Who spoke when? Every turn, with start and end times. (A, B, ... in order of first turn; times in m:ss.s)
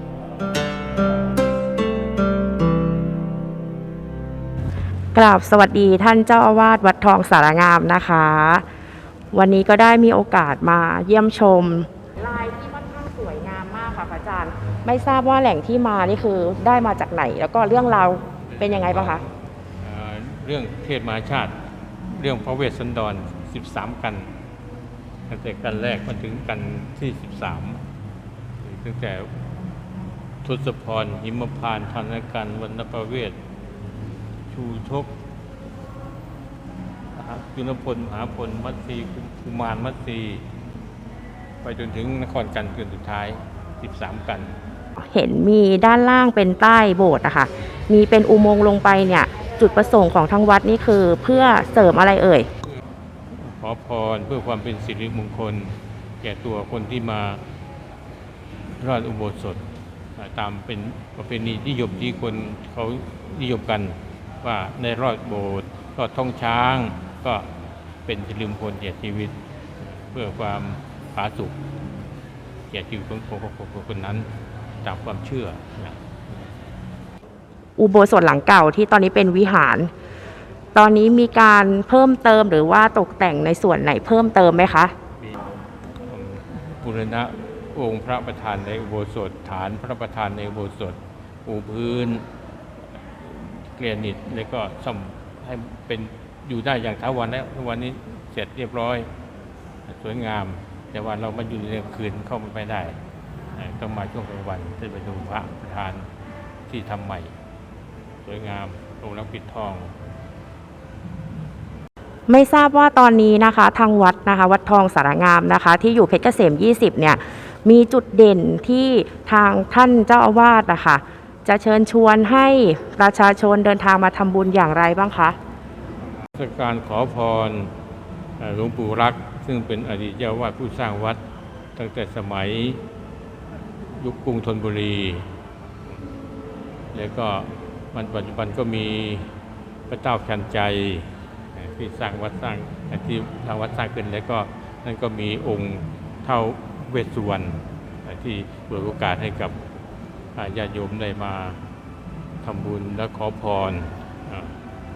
0:05.1-0:08.6 A
0:09.3-0:19.2 A
0:18.6-0:19.2 B
0:19.8-0:24.3 B
0:25.3-0:27.8 B
0:28.6-0:29.4 B
0:30.4-0:33.4 B
0:34.5-0:35.1 B
0:37.1-0:40.4 B
0:41.6-0:44.5 B
0:45.0-0:52.5 A
0:53.3-0:57.4 B
0:58.8-1:11.6 B
1:12.7-1:14.3 B
1:14.8-1:16.1 B
1:17.8-1:19.9 A
1:20.7-1:24.9 A
1:25.2-1:32.2 B
1:33.0-1:39.1 B
1:39.9-1:43.0 B
1:43.5-1:46.1 B
1:46.7-1:47.3 B
1:48.2-1:49.9 B
1:52.3-2:05.4 A
2:06.2-2:07.7 B
2:08.4-2:11.2 B
2:11.7-2:12.8 B
2:13.9-2:15.3 B
2:16.9-2:19.4 B
2:19.9-2:29.6 B
2:30.3-2:31.6 B
2:32.4-2:34.6 B